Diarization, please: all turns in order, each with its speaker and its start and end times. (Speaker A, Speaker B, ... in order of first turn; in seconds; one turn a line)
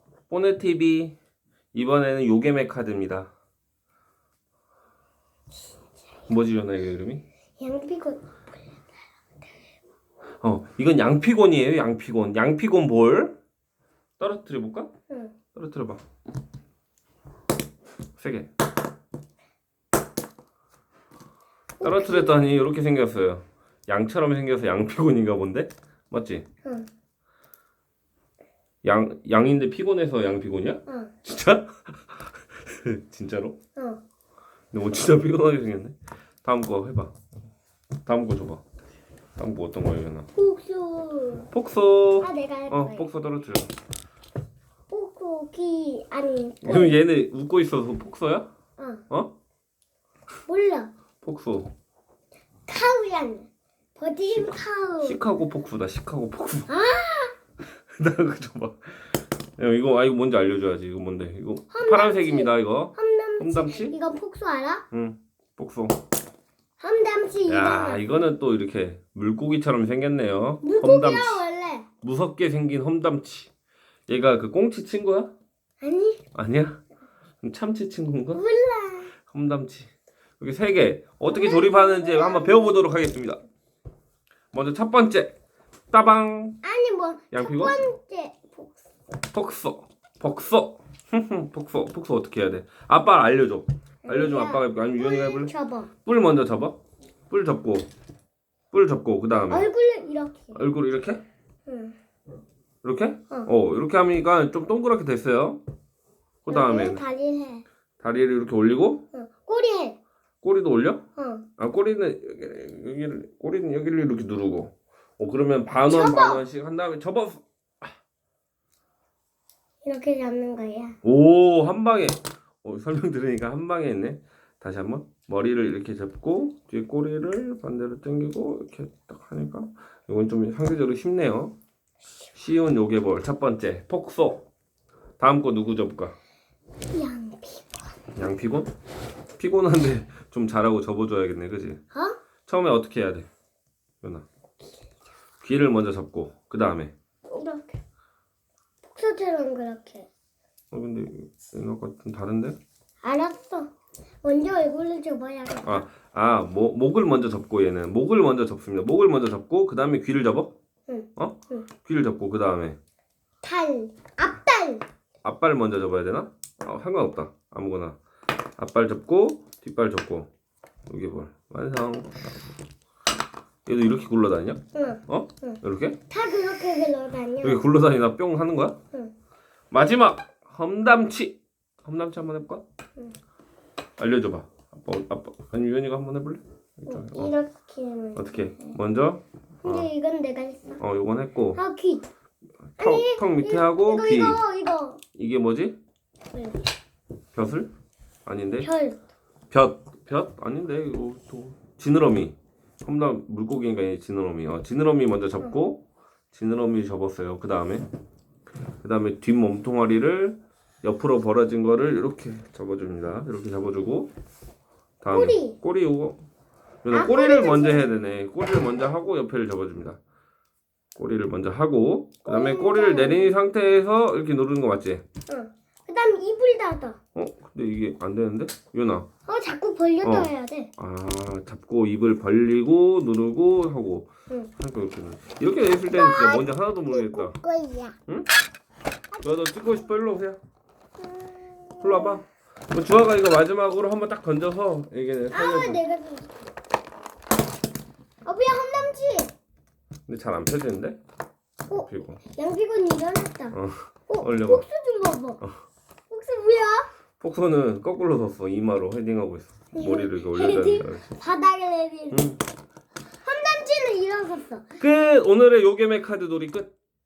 Speaker A: 0.3-1.1
Speaker A: 1.7-3.3
Speaker A: 6.3-7.2
Speaker B: 7.6-8.3
Speaker A: 10.4-13.4
Speaker A: 14.2-14.9
Speaker B: 15.1-15.3
Speaker A: 15.5-16.0
Speaker A: 18.2-18.5
Speaker B: 21.8-22.4
Speaker A: 21.8-26.4
Speaker A: 28.8-33.6
Speaker B: 30.9-31.1
Speaker B: 33.8-34.0
Speaker A: 34.7-37.1
Speaker A: 38.0-38.6
Speaker A: 39.4-40.3
Speaker B: 40.3-41.5
Speaker A: 41.5-43.7
Speaker B: 42.2-43.1
Speaker B: 44.9-47.0
Speaker A: 46.6-48.5
Speaker B: 48.8-49.0
Speaker B: 50.5-50.9
Speaker A: 51.2-51.7
Speaker B: 52.7-55.2
Speaker A: 54.3-56.7
Speaker B: 56.7-57.3
Speaker A: 57.9-63.9
Speaker B: 61.7-64.8
Speaker A: 64.9-66.0
Speaker B: 66.8-68.0
Speaker A: 67.5-71.4
Speaker B: 70.6-71.9
Speaker A: 72.0-73.5
Speaker A: 74.1-75.3
Speaker B: 75.8-76.2
Speaker A: 76.3-76.8
Speaker A: 77.4-78.4
Speaker B: 78.3-79.1
Speaker A: 79.3-83.4
Speaker B: 81.3-82.9
Speaker A: 84.5-85.3
Speaker A: 85.9-86.6
Speaker B: 86.6-88.8
Speaker A: 87.3-87.8
Speaker A: 89.3-95.5
Speaker B: 94.0-95.9
Speaker A: 96.0-96.8
Speaker A: 97.3-97.9
Speaker A: 98.7-99.7
Speaker B: 99.5-100.6
Speaker A: 100.5-101.2
Speaker B: 101.7-102.0
Speaker A: 102.8-105.6
Speaker A: 106.5-107.0
Speaker B: 106.5-107.6
Speaker A: 108.0-109.0
Speaker B: 109.1-110.0
Speaker A: 110.4-111.0
Speaker B: 111.2-111.4
Speaker A: 111.6-117.4
Speaker B: 115.8-116.4
Speaker B: 119.8-121.0
Speaker A: 121.0-131.6
Speaker A: 132.3-134.4
Speaker A: 135.2-136.2
Speaker B: 136.9-137.9
Speaker A: 138.2-138.7
Speaker A: 139.4-141.8
Speaker A: 142.4-143.3
Speaker A: 145.4-146.9
Speaker B: 147.3-147.8
Speaker B: 148.9-150.1
Speaker A: 150.7-152.6
Speaker B: 153.0-153.7
Speaker B: 154.2-155.8
Speaker A: 155.6-160.5
Speaker B: 160.9-161.6
Speaker A: 161.2-162.8
Speaker B: 163.4-164.8
Speaker A: 165.2-168.0
Speaker A: 168.6-170.3
Speaker A: 170.9-172.5
Speaker A: 173.7-176.0
Speaker B: 174.7-177.7
Speaker A: 177.4-178.8
Speaker A: 179.7-182.6
Speaker A: 184.0-187.3
Speaker B: 186.9-188.3
Speaker A: 188.1-189.9
Speaker B: 189.6-190.8
Speaker A: 190.8-191.6
Speaker B: 191.5-192.1
Speaker A: 192.8-194.4
Speaker B: 192.8-195.0
Speaker A: 195.1-195.8
Speaker B: 196.3-196.7
Speaker A: 197.3-197.7
Speaker A: 198.2-198.7
Speaker B: 198.6-199.0
Speaker A: 199.5-207.9
Speaker A: 208.8-214.1
Speaker A: 215.0-216.2
Speaker B: 215.1-215.6
Speaker A: 216.8-220.0
Speaker B: 216.9-217.9
Speaker A: 220.9-225.0
Speaker B: 222.2-223.3
Speaker B: 225.3-227.0
Speaker A: 227.1-229.1
Speaker B: 229.3-230.7
Speaker A: 230.0-237.4
Speaker B: 235.9-237.9
Speaker A: 239.2-240.4
Speaker B: 241.0-242.2
Speaker A: 241.8-245.8
Speaker B: 245.3-246.4
Speaker B: 248.2-249.3
Speaker A: 250.1-251.0
Speaker B: 251.7-253.6
Speaker A: 251.8-252.2
Speaker A: 253.5-254.7
Speaker B: 254.1-255.4
Speaker B: 256.1-256.9
Speaker A: 257.2-261.1
Speaker B: 259.7-262.3
Speaker A: 262.1-262.4
Speaker B: 263.2-264.8
Speaker A: 264.8-266.7